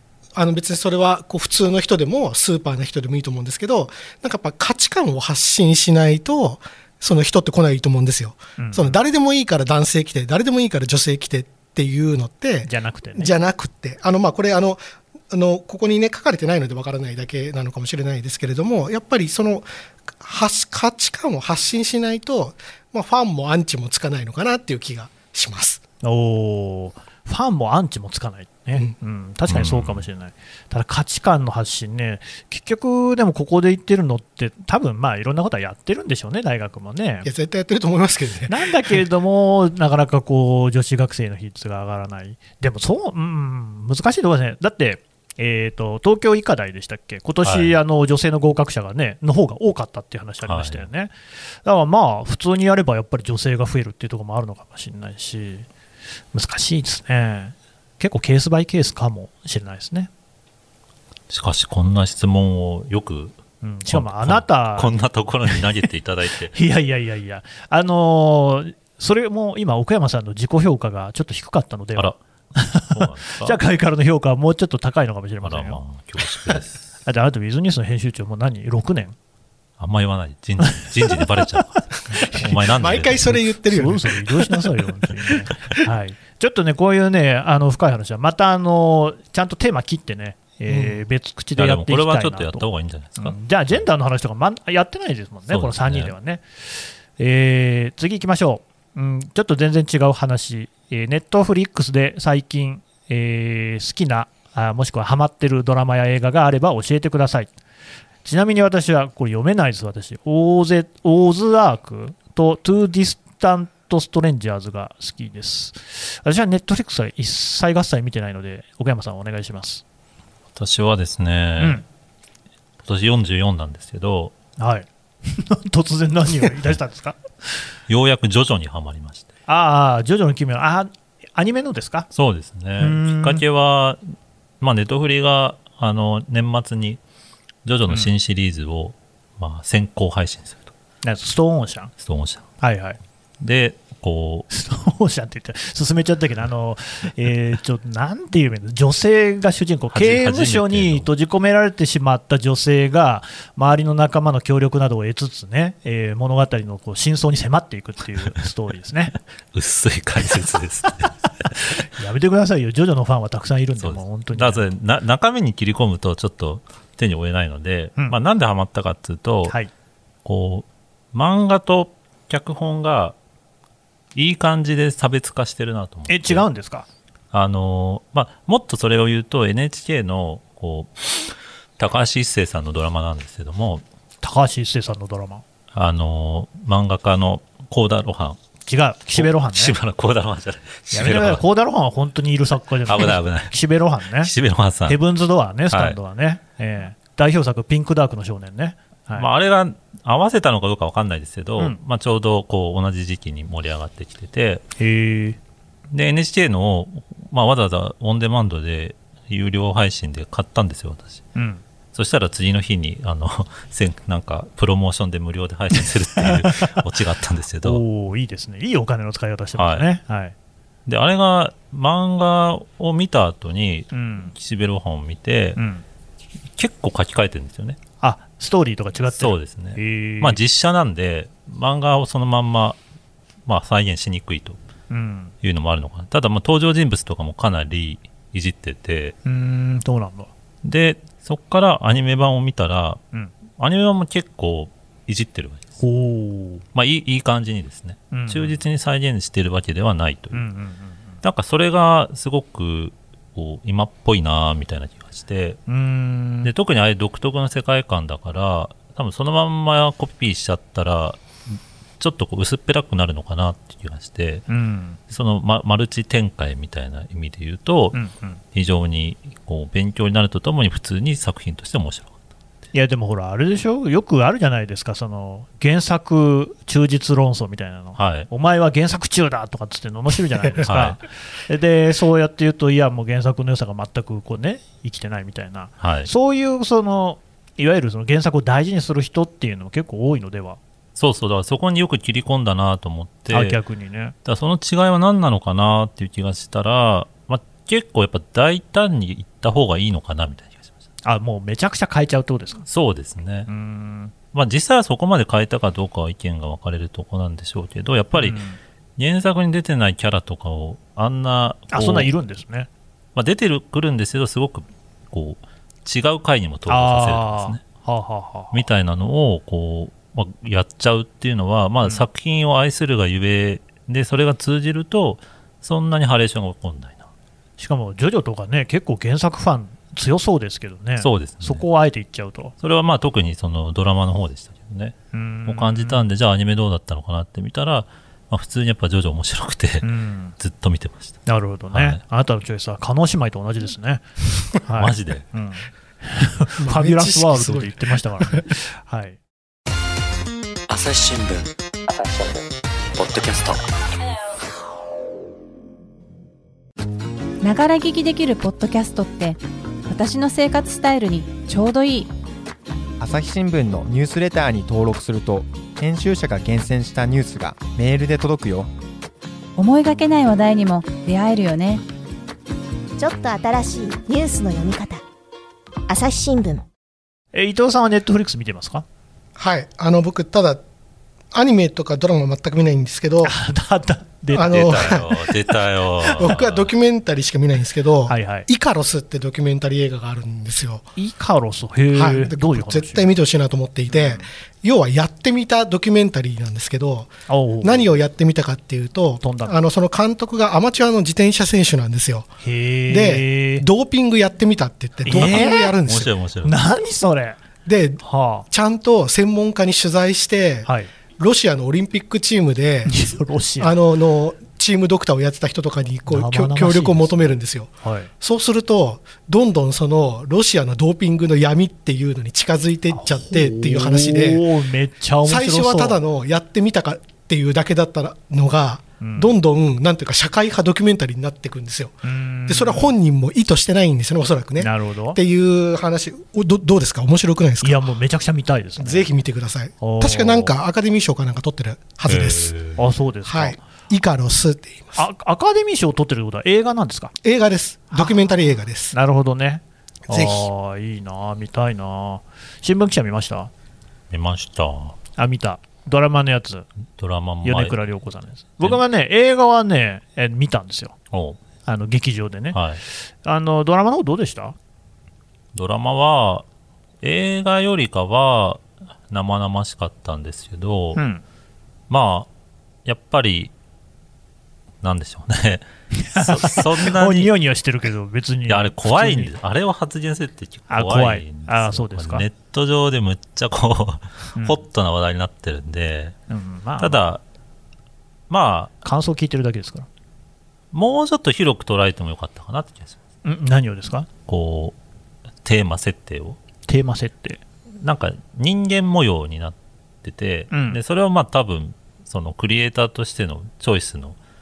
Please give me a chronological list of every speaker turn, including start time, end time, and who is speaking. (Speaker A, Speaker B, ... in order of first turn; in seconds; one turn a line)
Speaker A: 0.3-19.7
Speaker B: 8.6-9.0
Speaker B: 12.6-13.3
Speaker A: 20.2-25.8
Speaker B: 26.0-37.3
Speaker C: 29.5-30.0
Speaker A: 37.2-38.6
Speaker B: 38.5-51.1
Speaker C: 47.4-47.8
Speaker C: 50.5-50.9
Speaker B: 51.6-55.7
Speaker B: 56.3-60.1
Speaker C: 61.3-63.4
Speaker B: 63.6-64.9
Speaker C: 63.9-66.6
Speaker B: 66.5-75.8
Speaker C: 72.8-73.6
Speaker C: 75.4-76.8
Speaker B: 76.4-79.2
Speaker C: 79.8-83.4
Speaker B: 80.8-81.2
Speaker A: 82.1-84.7
Speaker B: 83.7-92.7
Speaker A: 90.7-91.0
Speaker C: 91.6-93.8
Speaker B: 93.2-107.5
Speaker C: 95.5-96.1
Speaker B: 108.2-119.8
Speaker C: 120.5-121.8
Speaker B: 121.6-121.8
Speaker C: 122.8-124.3
Speaker B: 124.6-127.2
Speaker C: 127.9-129.3
Speaker B: 129.5-132.1
Speaker C: 132.1-134.0
Speaker B: 132.8-133.4
Speaker C: 134.6-137.0
Speaker C: 137.7-140.7
Speaker B: 141.0-141.9
Speaker C: 142.0-142.5
Speaker B: 142.6-143.0
Speaker C: 143.4-144.5
Speaker B: 144.5-159.2
Speaker C: 149.9-151.1
Speaker C: 159.5-161.5
Speaker B: 161.6-164.7
Speaker C: 163.8-169.6
Speaker C: 170.2-173.2
Speaker C: 174.2-176.5
Speaker B: 176.1-176.9
Speaker C: 177.3-183.8
Speaker B: 184.2-185.4
Speaker C: 185.7-188.4
Speaker B: 188.7-189.8
Speaker C: 189.2-191.4
Speaker B: 190.9-194.3
Speaker C: 192.9-193.6
Speaker C: 194.2-195.0
Speaker B: 194.9-199.3
Speaker C: 195.7-196.0
Speaker C: 199.2-204.7
Speaker B: 204.8-205.4
Speaker C: 205.9-211.2
Speaker B: 211.3-211.6
Speaker C: 211.9-217.8
Speaker B: 216.2-216.8
Speaker B: 217.6-220.3
Speaker C: 219.6-219.9
Speaker C: 220.9-225.6
Speaker B: 223.9-224.3
Speaker B: 225.6-225.8
Speaker C: 226.6-227.8
Speaker B: 228.0-230.4
Speaker C: 229.1-232.8
Speaker C: 233.5-234.6
Speaker B: 234.9-235.3
Speaker C: 235.4-239.2
Speaker B: 239.2-240.3
Speaker C: 240.6-243.0
Speaker C: 243.6-245.7
Speaker B: 245.8-246.6
Speaker C: 246.7-250.4
Speaker B: 248.1-248.6
Speaker B: 250.3-251.2
Speaker C: 251.2-255.6
Speaker B: 255.7-256.5
Speaker C: 256.4-264.5
Speaker B: 264.5-265.0
Speaker C: 265.1-268.0
Speaker B: 267.9-268.4
Speaker C: 268.5-272.1
Speaker B: 272.7-290.6
Speaker C: 278.0-278.3
Speaker C: 280.6-281.0
Speaker C: 285.8-286.1
Speaker C: 291.0-293.6
Speaker B: 293.3-294.1
Speaker C: 294.2-300.7
Speaker B: 301.1-302.6
Speaker C: 302.7-303.5
Speaker B: 303.5-304.1
Speaker C: 304.3-308.4
Speaker B: 308.1-308.6
Speaker C: 309.0-312.1
Speaker B: 311.7-312.7
Speaker C: 313.1-317.6
Speaker B: 316.7-318.6
Speaker C: 318.5-327.1
Speaker B: 327.6-332.5
Speaker C: 331.0-331.6
Speaker C: 332.6-335.0
Speaker B: 335.1-336.1
Speaker C: 335.5-339.9
Speaker B: 339.8-340.4
Speaker C: 340.4-341.2
Speaker B: 341.3-349.2
Speaker C: 341.7-342.0
Speaker C: 344.8-345.3
Speaker A: 346.6-348.5
Speaker D: 350.7-353.6
Speaker E: 357.4-362.1
Speaker F: 363.0-368.7
Speaker E: 369.6-371.8
Speaker G: 373.0-375.0
Speaker G: 375.9-376.7
Speaker B: 377.3-378.9
Speaker A: 379.4-380.6
Speaker A: 381.3-383.3
Speaker B: 383.2-385.0
Speaker A: 384.3-385.1
Speaker C: 384.4-386.7
Speaker A: 386.2-390.9
Speaker B: 388.1-388.5
Speaker B: 391.0-393.1
Speaker A: 391.9-402.3
Speaker B: 393.9-394.3
Speaker B: 397.3-397.9
Speaker B: 399.2-399.6
Speaker B: 402.4-403.7
Speaker A: 402.9-406.1
Speaker B: 405.1-405.8
Speaker C: 405.1-406.6
Speaker B: 406.4-407.4
Speaker A: 407.7-410.7
Speaker B: 408.0-408.5
Speaker B: 410.6-410.9
Speaker A: 411.2-412.9
Speaker B: 412.9-413.8
Speaker A: 413.6-424.4
Speaker B: 416.1-418.1
Speaker B: 422.9-426.0
Speaker A: 425.2-437.9
Speaker B: 429.0-429.4
Speaker B: 432.0-432.9
Speaker B: 434.6-435.2
Speaker B: 437.6-439.1
Speaker A: 438.8-442.5
Speaker B: 439.8-440.6
Speaker C: 442.1-442.8
Speaker B: 442.8-443.6
Speaker A: 443.3-445.0
Speaker B: 445.0-447.1
Speaker A: 447.2-448.9
Speaker B: 448.9-453.5
Speaker A: 450.1-450.5
Speaker C: 454.1-455.0
Speaker B: 455.2-456.7
Speaker C: 457.0-457.8
Speaker B: 457.4-460.9
Speaker C: 461.1-461.4
Speaker B: 461.7-464.6
Speaker C: 462.5-462.8
Speaker C: 465.5-466.4
Speaker C: 467.0-471.0
Speaker B: 471.0-471.2
Speaker C: 471.9-472.3
Speaker C: 472.9-473.5
Speaker C: 474.8-477.3
Speaker B: 475.9-479.3
Speaker C: 478.5-486.2
Speaker B: 480.7-482.3
Speaker B: 486.3-487.0
Speaker C: 486.8-487.2
Speaker C: 488.3-488.7
Speaker B: 488.8-489.9
Speaker C: 490.7-493.0
Speaker B: 493.2-494.1
Speaker C: 494.3-494.8
Speaker C: 495.4-496.4
Speaker B: 496.7-497.4
Speaker C: 497.8-504.2
Speaker B: 500.5-500.8